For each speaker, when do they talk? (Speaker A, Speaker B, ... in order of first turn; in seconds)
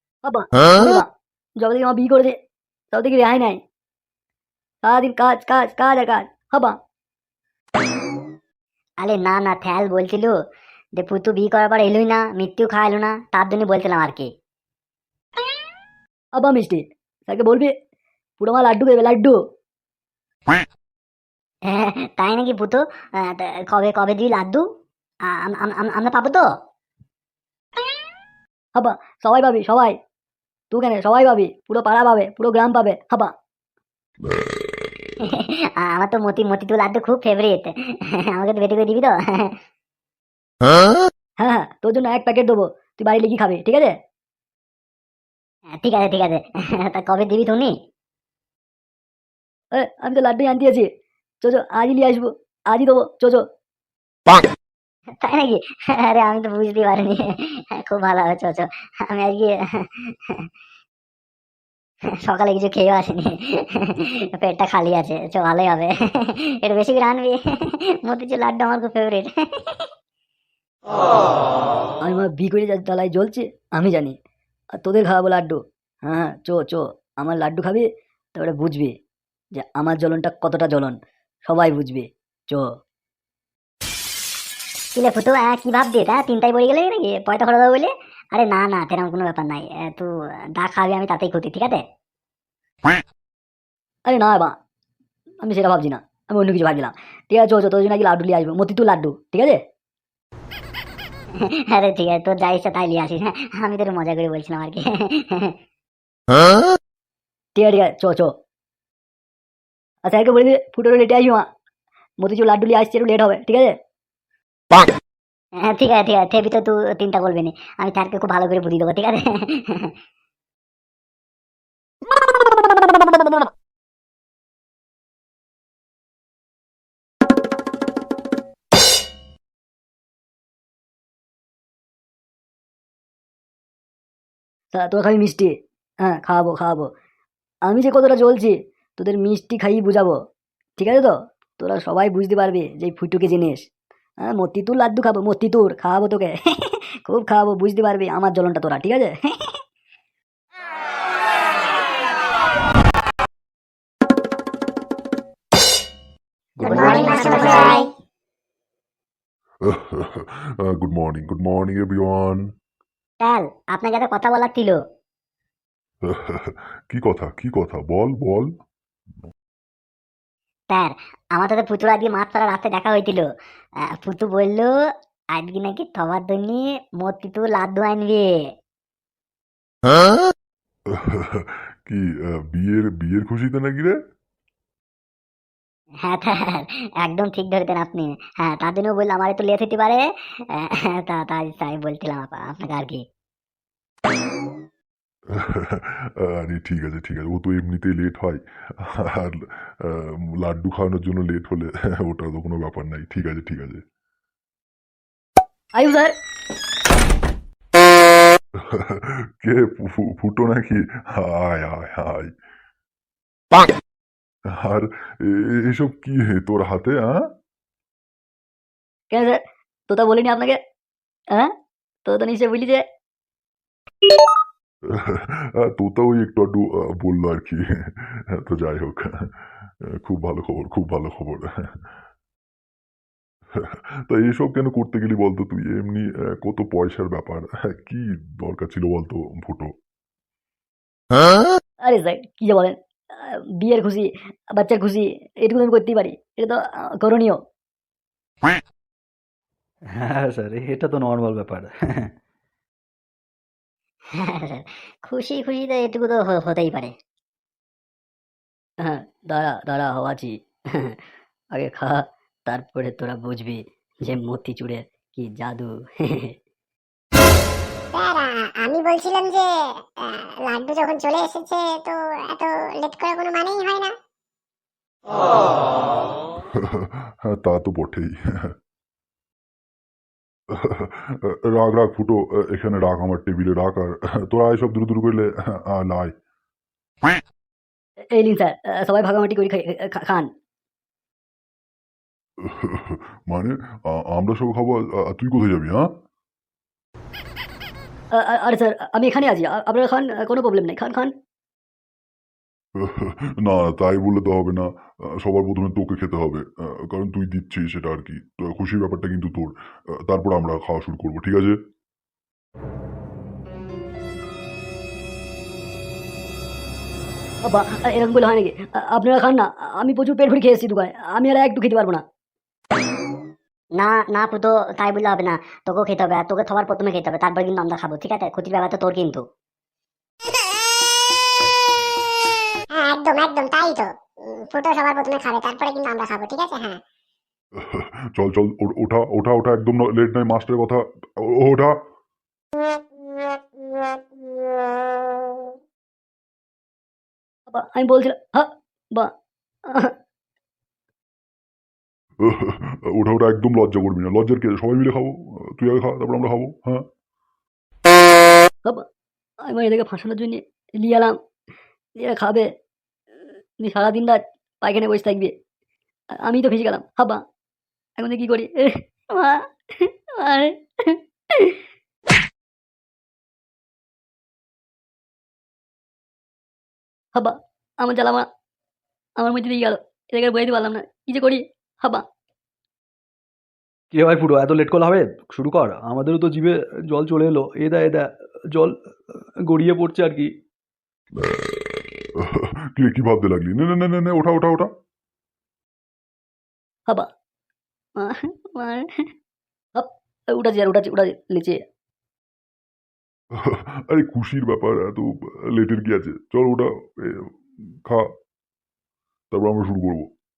Speaker A: 0.2-1.1, 1.6-2.4, 2.9-3.6, 4.8-6.8, 16.4-17.7, 18.4-19.4, 28.8-30.0, 30.7-33.3, 41.4-44.0, 49.7-50.9, 51.4-53.5, 72.0-74.2, 74.8-78.9, 79.6-82.7, 94.1-94.5, 95.4-99.6, 107.5-108.3, 110.0-111.5, 112.2-113.8, 134.7-136.9, 137.7-140.2, 140.8-143.7, 144.2-149.5, 205.8-206.1, 219.1-220.6, 222.1-222.8, 241.8-247.4, 258.8-261.0, 261.5-266.4, 288.1-290.3, 298.1-301.1, 317.4-322.0, 347.5-349.1, 349.7-349.9, 359.4-361.2, 362.0-362.5, 363.6-365.3, 366.2-367.2, 368.0-371.6, 377.1-378.3, 379.2-382.0, 398.0-398.9, 399.8-401.6
Speaker B: 9.0-10.4, 11.0-14.3, 21.7-24.6, 25.3-26.5, 35.2-37.7, 38.2-39.6, 45.8-47.8, 55.2-60.5, 62.2-69.9, 85.0-91.8, 101.3-105.6, 115.6-119.9, 156.6-157.8, 163.2-164.8, 170.7-173.3, 173.8-178.5, 186.0-193.0, 254.2-256.9, 323.8-329.2
Speaker C: 156.6-157.9, 267.9-273.9, 332.7-336.8
Speaker D: 156.8-157.4, 159.6-162.5, 166.0-168.5, 180.9-184.0, 195.3-203.8, 208.6-212.3, 214.6-217.3, 224.9-231.7, 233.6-239.7, 276.6-278.5, 280.5-286.1, 292.4-295.9, 302.8-311.6, 337.6-341.8, 352.2-356.9, 391.2-391.6, 392.2-394.7, 403.4-408.1, 409.3-410.1
Speaker E: 250.0-252.1, 383.9-390.3